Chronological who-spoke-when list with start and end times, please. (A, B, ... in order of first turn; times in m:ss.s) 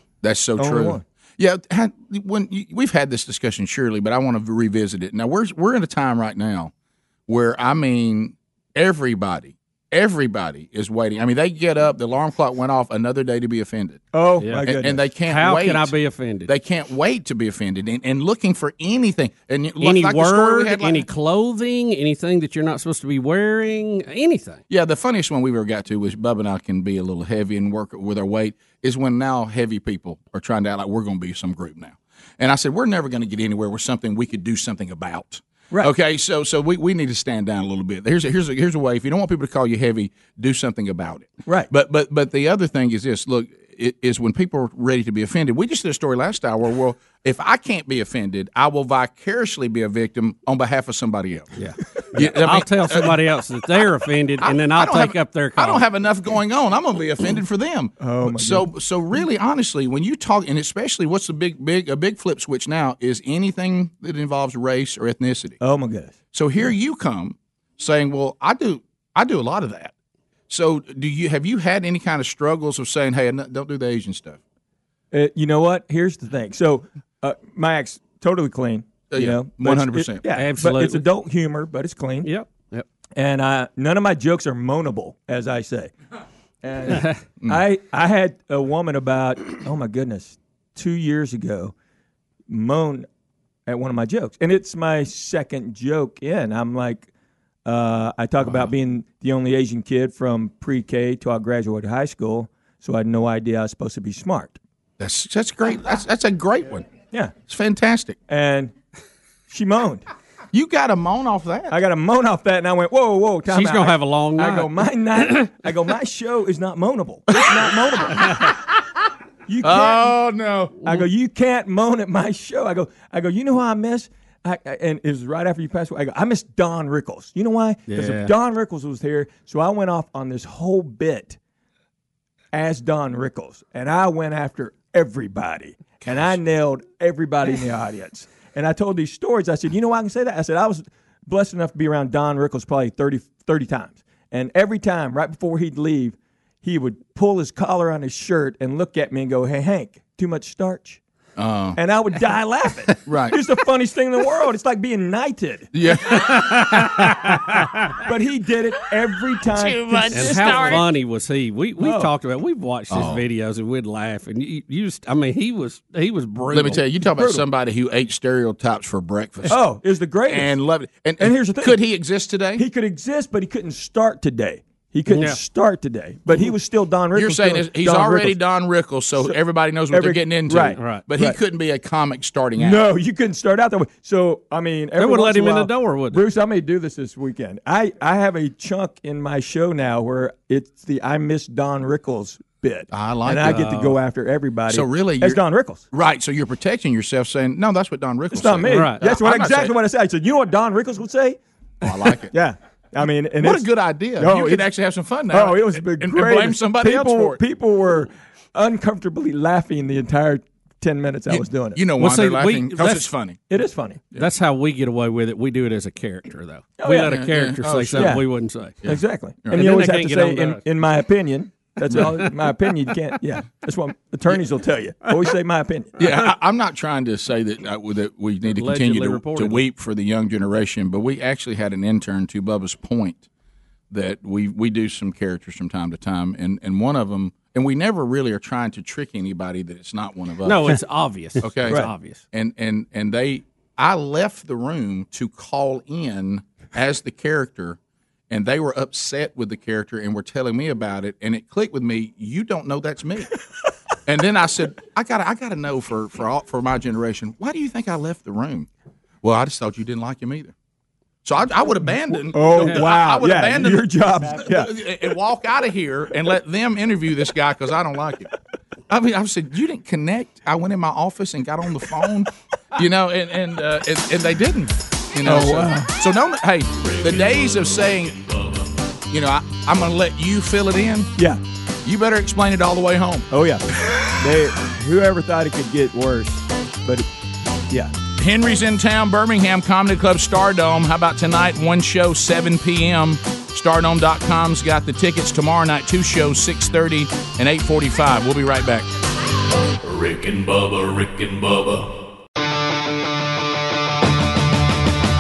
0:00.2-0:06.7 A
0:00.6-0:01.0 B
0:07.3-0:14.0 A
0:14.1-0:15.0 B
0:14.6-0:15.9 A
0:15.3-0:16.5 C
0:16.5-0:21.1 A
0:19.8-0:24.6 C
0:24.7-0:51.5 A
0:41.5-0:41.7 B
0:51.6-0:55.8 C
0:52.2-0:53.1 A
0:54.4-1:05.6 A
0:58.0-0:58.7 B
1:05.6-1:06.7 B
1:06.3-1:09.9 A
1:10.5-1:14.4 A
1:15.1-1:22.3 B
1:19.1-1:20.2 A
1:20.4-1:21.1 C
1:22.2-1:22.8 C
1:23.2-1:25.9 B
1:26.6-1:31.7 B
1:26.9-1:27.2 C
1:32.5-1:33.1 B
1:33.7-1:37.1 B
1:37.6-1:44.6 B
1:45.0-1:46.9 A
1:47.5-1:48.2 A
1:48.3-1:48.7 B
1:49.5-1:50.1 B
1:50.5-1:51.8 A
1:51.7-1:58.4 B
1:53.5-1:55.5 C
1:59.5-2:00.1 B
1:59.6-2:00.8 A
2:00.8-2:11.4 B
2:07.9-2:08.3 C
2:12.5-2:31.0 B
2:31.4-2:31.8 A
2:31.8-2:35.7 B
2:33.1-2:33.4 A
2:35.7-2:36.9 A
2:36.1-2:37.9 C
2:38.0-2:40.8 B
2:39.5-2:40.8 A
2:40.1-2:46.8 C
2:41.8-2:42.1 B
2:42.9-2:43.2 A
2:46.5-2:49.6 A
2:47.2-2:47.4 B
2:49.5-2:50.5 B
2:50.3-2:52.6 A
2:51.2-2:51.8 B
2:52.6-2:58.4 B
2:55.1-2:55.4 C
2:57.1-3:02.8 A
2:59.9-3:01.4 B
3:00.8-3:01.0 C
3:02.6-3:15.8 B
3:05.0-3:06.2 C
3:12.9-3:13.9 A
3:13.5-3:13.8 C
3:14.7-3:15.4 A
3:15.9-3:19.7 A
3:18.3-3:21.4 B
3:18.7-3:19.0 C
3:21.8-3:22.3 A
3:22.2-3:23.7 B
3:23.4-3:27.4 A
3:24.2-3:24.7 B
3:25.3-3:31.8 B
3:31.3-3:33.4 A
3:32.0-3:33.1 C
3:33.5-3:34.0 B
3:34.1-3:38.8 C
3:36.8-3:37.2 B
3:37.1-3:38.2 A
3:37.9-3:38.2 B
3:38.8-3:39.6 A
3:38.8-3:46.0 B
3:39.5-3:40.6 C
3:46.0-3:53.2 A
3:48.6-3:49.6 C
3:53.9-4:00.8 A
4:00.4-4:02.2 C
4:01.4-4:07.8 A
4:08.3-4:13.3 A
4:14.1-4:18.7 A
4:19.2-4:20.5 A
4:21.2-4:28.3 A
4:22.3-4:24.7 B
4:22.6-4:22.9 C
4:28.9-4:38.2 A
4:35.2-4:35.9 B
4:36.9-4:38.7 D
4:39.1-4:41.1 A
4:41.8-4:43.3 A
4:43.3-4:43.6 B
4:44.2-4:47.1 B
4:48.2-4:58.9 A
4:59.8-5:01.9 D